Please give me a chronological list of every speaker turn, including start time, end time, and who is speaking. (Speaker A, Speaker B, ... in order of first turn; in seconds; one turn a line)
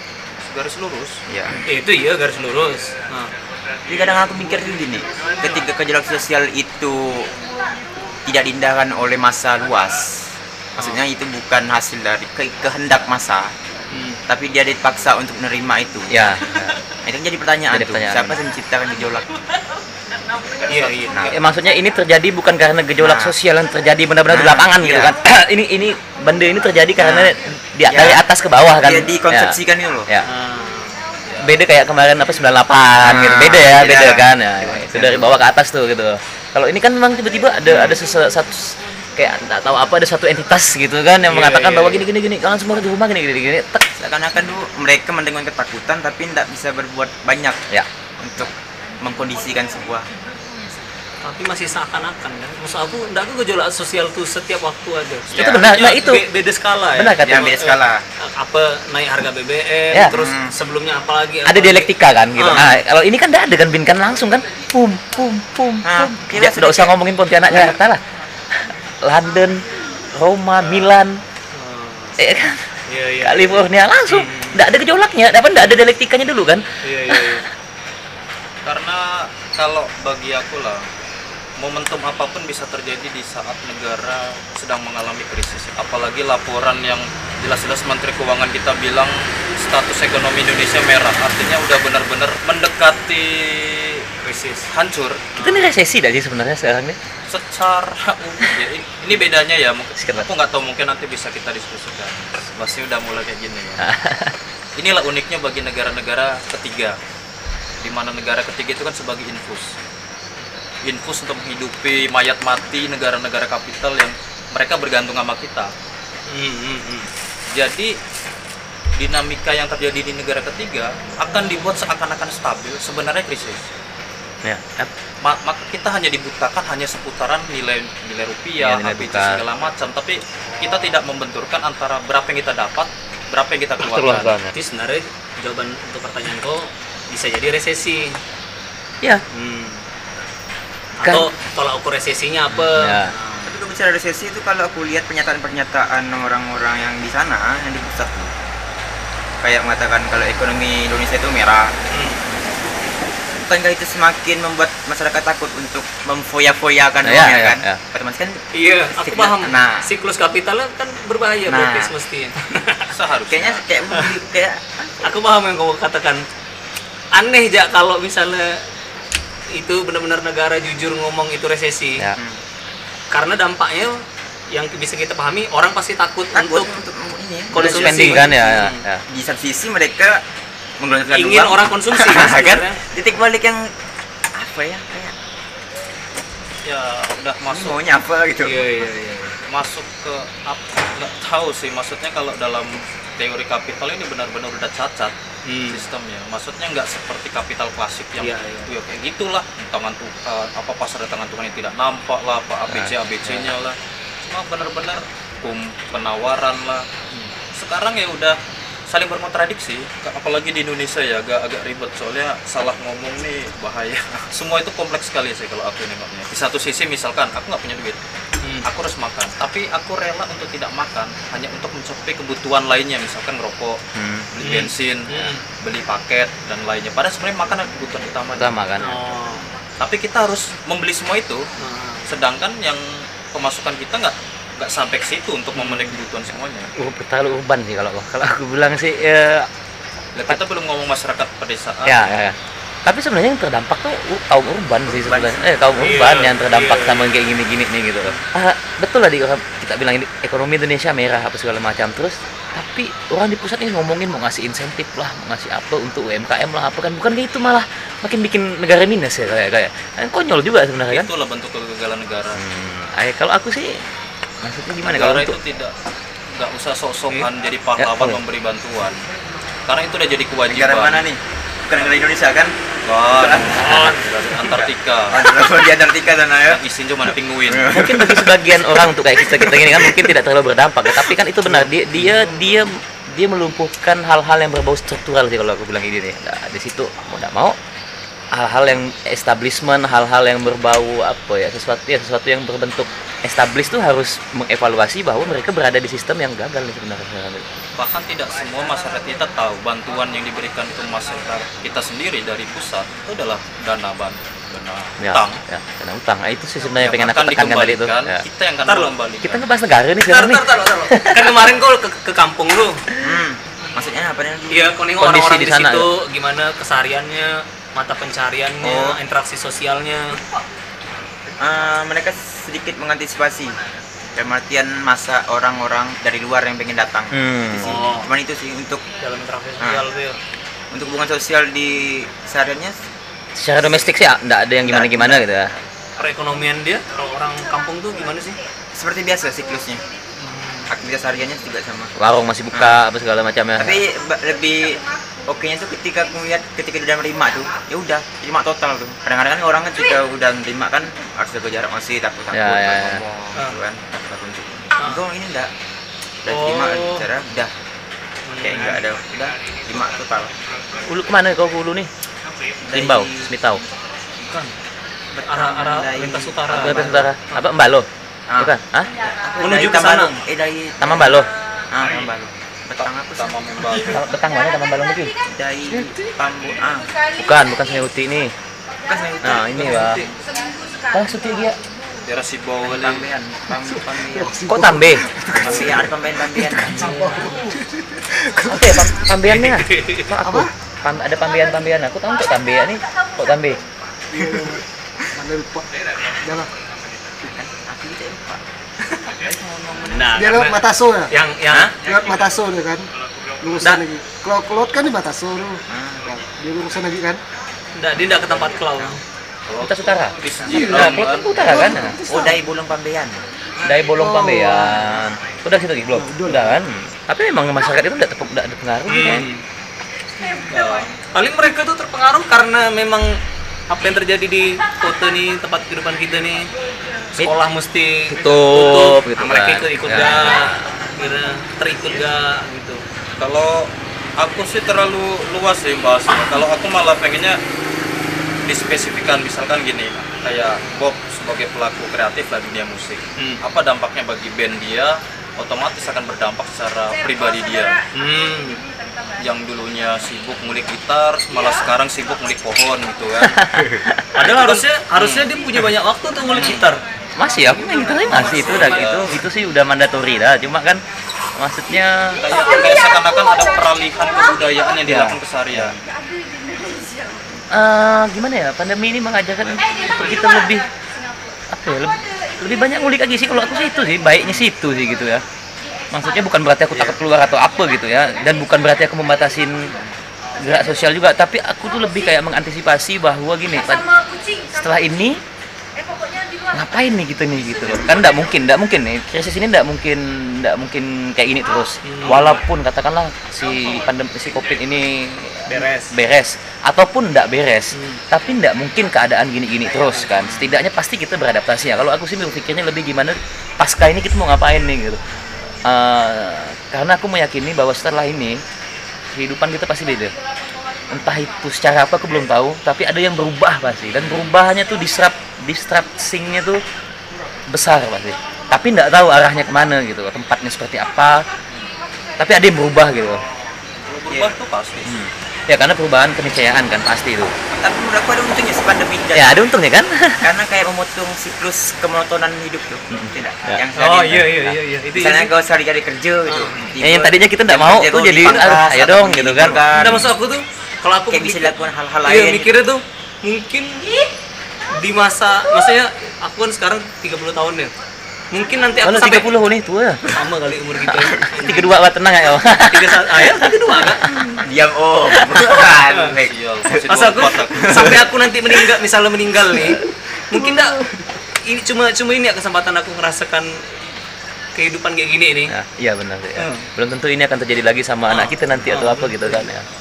Speaker A: 0.4-1.2
Speaker B: 1.3-1.6
Speaker C: 1.6-3.3
Speaker B: 3.9-7.3
Speaker B: 8.2-10.1
Speaker B: 10.8-13.5
Speaker C: 13.9-14.2
Speaker B: 14.3-16.4
Speaker D: 16.1-16.8
Speaker B: 17.0-19.2
Speaker D: 17.7-18.4
Speaker C: 20.7-21.2
Speaker A: 20.7-21.3
Speaker B: 21.1-21.4
Speaker D: 21.3-30.3
Speaker B: 23.0-23.3
Speaker B: 24.3-25.1
Speaker B: 26.9-28.2
Speaker B: 28.8-30.1
Speaker C: 30.2-31.0
Speaker D: 31.4-43.9
Speaker B: 33.0-35.4
Speaker B: 37.7-38.0
Speaker C: 41.2-42.1
Speaker B: 44.0-47.6
Speaker B: 48.2-50.1
Speaker C: 51.2-62.8
Speaker D: 55.3-56.2
Speaker B: 55.3-55.6
Speaker D: 56.9-57.6
Speaker B: 57.2-58.0
Speaker B: 60.0-60.5
Speaker D: 61.4-68.0
Speaker B: 65.8-66.9
Speaker D: 68.5-71.2
Speaker C: 71.5-72.2
Speaker D: 72.2-72.7
Speaker C: 72.9-74.6
Speaker D: 73.2-77.4
Speaker C: 76.8-77.5
Speaker A: 78.6-80.9
Speaker A: 81.6-94.0
Speaker C: 94.2-94.7
Speaker A: 94.7-95.2
Speaker C: 95.3-95.7
Speaker D: 95.4-97.0
Speaker A: 97.3-103.8
Speaker D: 100.0-100.3
Speaker D: 103.8-104.3
Speaker A: 104.8-107.0
Speaker A: 107.8-109.8
Speaker A: 110.8-115.7
Speaker C: 116.3-117.1
Speaker A: 117.5-118.0
Speaker A: 119.0-123.7
Speaker D: 124.4-124.9
Speaker A: 125.2-134.4
Speaker D: 128.6-129.4
Speaker C: 130.5-130.8
Speaker D: 133.8-134.5
Speaker C: 134.5-138.2
Speaker C: 139.3-139.8
Speaker C: 141.0-143.5
Speaker D: 141.0-141.3
Speaker D: 142.5-143.1
Speaker B: 143.4-148.3
Speaker B: 149.4-151.7
Speaker C: 151.9-152.2
Speaker B: 153.3-158.4
Speaker D: 157.0-157.8
Speaker C: 158.5-162.9
Speaker B: 158.9-159.9
Speaker B: 161.5-161.9
Speaker A: 162.9-163.6
Speaker B: 163.3-164.9
Speaker C: 165.0-166.2
Speaker C: 167.1-168.6
Speaker C: 169.5-172.0
Speaker C: 173.1-176.7
Speaker B: 176.3-178.4
Speaker C: 177.5-178.8
Speaker D: 177.5-179.0
Speaker B: 179.1-180.2
Speaker B: 180.8-183.7
Speaker C: 181.1-182.8
Speaker B: 184.3-185.1
Speaker A: 186.6-187.8
Speaker B: 187.5-188.6
Speaker C: 188.4-189.3
Speaker A: 189.5-195.1
Speaker C: 195.4-195.8
Speaker A: 195.7-206.8
Speaker C: 198.2-198.7
Speaker A: 207.5-218.0
Speaker C: 218.4-218.7
Speaker A: 218.6-223.8
Speaker D: 223.9-224.3
Speaker A: 224.3-228.6
Speaker C: 224.4-225.4
Speaker D: 228.3-229.0
Speaker C: 228.8-229.5
Speaker A: 229.8-231.5
Speaker C: 231.6-232.1
Speaker A: 232.1-236.7
Speaker C: 235.5-235.9
Speaker D: 236.8-239.5
Speaker A: 240.1-242.0
Speaker D: 241.8-261.1
Speaker B: 244.9-245.5
Speaker C: 245.8-247.1
Speaker A: 260.9-262.4
Speaker D: 262.3-263.8
Speaker D: 264.4-265.4
Speaker A: 264.8-265.7
Speaker A: 266.3-269.0
Speaker D: 267.8-268.2
Speaker A: 269.7-271.1
Speaker B: 270.5-272.5
Speaker A: 272.9-275.4
Speaker B: 273.1-276.6
Speaker C: 273.6-274.0
Speaker A: 276.4-277.8
Speaker B: 277.4-278.6
Speaker D: 277.7-287.6
Speaker B: 279.1-280.1
Speaker B: 282.0-282.4
Speaker D: 288.3-297.5
Speaker A: 297.8-305.4
Speaker D: 305.0-308.2
Speaker A: 306.8-309.4
Speaker C: 308.6-308.9
Speaker D: 309.2-311.4
Speaker C: 310.1-312.8
Speaker B: 313.0-314.8
Speaker C: 314.5-320.2
Speaker D: 315.0-315.9
Speaker B: 318.6-319.0
Speaker B: 321.4-323.6
Speaker B: 324.1-328.8
Speaker D: 327.1-327.8
Speaker C: 327.6-328.1
Speaker C: 329.0-330.2
Speaker B: 329.6-329.8
Speaker B: 330.7-332.8
Speaker D: 333.4-335.5
Speaker B: 334.6-335.4
Speaker C: 336.0-338.4
Speaker E: 337.2-338.5
Speaker B: 338.8-339.8
Speaker E: 339.4-340.1
Speaker C: 340.2-340.7
Speaker B: 340.7-341.9
Speaker D: 342.0-343.8
Speaker B: 342.5-342.8
Speaker B: 343.6-355.5
Speaker E: 344.0-346.1
Speaker E: 347.2-347.6
Speaker D: 352.3-353.0
Speaker B: 356.2-357.5
Speaker C: 356.3-357.1
Speaker C: 358.2-358.8
Speaker B: 358.4-360.3
Speaker D: 360.8-361.9
Speaker B: 362.7-363.3
Speaker D: 362.7-363.6
Speaker C: 364.3-364.5
Speaker B: 365.1-367.1
Speaker C: 365.2-367.4
Speaker D: 366.5-367.9
Speaker B: 368.3-371.2
Speaker D: 368.4-368.9
Speaker E: 368.9-369.7
Speaker C: 369.4-370.2
Speaker D: 370.8-371.3
Speaker E: 371.2-371.7
Speaker B: 371.7-373.9
Speaker A: 372.8-374.0
Speaker D: 373.8-375.1
Speaker E: 373.9-375.4
Speaker B: 375.2-376.9
Speaker E: 376.6-378.0
Speaker D: 377.2-378.3
Speaker E: 378.7-382.1
Speaker B: 378.9-380.1
Speaker D: 379.2-380.1
Speaker D: 380.9-381.6
Speaker A: 382.0-383.1
Speaker B: 382.6-384.4
Speaker F: 383.6-389.0
Speaker D: 384.4-385.1
Speaker B: 385.4-387.1
Speaker C: 386.7-387.2
Speaker D: 388.4-393.6
Speaker C: 389.2-390.1
Speaker F: 390.2-390.5
Speaker E: 390.9-393.7
Speaker F: 394.1-396.5
Speaker B: 397.3-398.4
Speaker B: 399.2-400.0
Speaker C: 399.8-401.7
Speaker F: 400.1-401.1
Speaker F: 401.7-402.9
Speaker F: 403.4-407.2
Speaker B: 405.7-406.1
Speaker C: 407.7-409.0
Speaker A: 409.5-411.7
Speaker D: 409.6-412.0
Speaker F: 410.5-412.4
Speaker B: 411.5-413.2
Speaker D: 413.6-419.3
Speaker F: 413.9-415.1
Speaker F: 415.9-416.6
Speaker C: 418.9-419.4
Speaker E: 420.2-420.9
Speaker A: 420.5-420.9
Speaker C: 421.1-423.2
Speaker C: 423.7-426.5
Speaker C: 427.1-432.8
Speaker D: 428.1-430.5
Speaker A: 433.2-437.4
Speaker A: 438.4-447.8
Speaker E: 446.9-450.1
Speaker C: 447.9-448.6
Speaker A: 449.2-453.5
Speaker E: 451.3-453.3
Speaker D: 453.2-454.1
Speaker C: 454.1-456.8
Speaker A: 454.2-455.3
Speaker E: 455.3-459.2
Speaker A: 456.2-456.7
Speaker D: 457.1-460.8
Speaker C: 457.9-458.9
Speaker A: 458.0-459.2
Speaker D: 461.4-462.4
Speaker E: 462.0-465.1
Speaker A: 462.1-465.8
Speaker D: 464.8-465.8
Speaker E: 465.8-467.5
Speaker D: 467.5-470.6
Speaker E: 469.6-481.0
Speaker D: 471.5-475.2
Speaker D: 475.9-479.7
Speaker D: 480.4-483.9
Speaker E: 481.6-482.3
Speaker E: 483.5-485.2
Speaker D: 484.5-485.2
Speaker E: 485.8-488.4
Speaker D: 486.5-505.0
Speaker C: 491.8-492.4
Speaker C: 495.5-495.9
Speaker C: 497.7-498.0
Speaker B: 500.1-500.6
Speaker C: 505.1-505.6
Speaker D: 505.6-508.4
Speaker D: 509.1-510.1
Speaker E: 510.0-511.6
Speaker D: 510.9-516.6
Speaker E: 514.7-515.1
Speaker D: 517.5-521.3
Speaker E: 518.2-518.5
Speaker A: 521.5-521.7
Speaker E: 521.7-522.6
Speaker D: 522.2-523.2
Speaker A: 523.8-525.0
Speaker B: 524.1-524.4
Speaker D: 524.8-527.3
Speaker B: 527.5-529.5
Speaker D: 529.1-530.3
Speaker B: 530.2-534.3
Speaker D: 532.9-533.6
Speaker C: 533.7-535.3
Speaker D: 534.2-534.5
Speaker B: 534.9-540.1
Speaker C: 536.3-536.6
Speaker D: 536.8-540.1
Speaker C: 539.7-543.9
Speaker B: 541.1-542.6
Speaker E: 543.8-544.1
Speaker C: 544.7-547.7
Speaker C: 548.3-549.3
Speaker D: 548.8-550.1
Speaker C: 550.1-551.8
Speaker D: 550.8-554.4
Speaker C: 552.6-554.1
Speaker B: 554.4-558.1
Speaker D: 555.1-555.6
Speaker C: 555.9-556.1
Speaker A: 556.2-558.0
Speaker C: 556.9-560.8
Speaker C: 561.4-563.6
Speaker C: 564.5-565.5
Speaker D: 565.5-569.6
Speaker C: 566.4-566.7
Speaker C: 568.1-569.4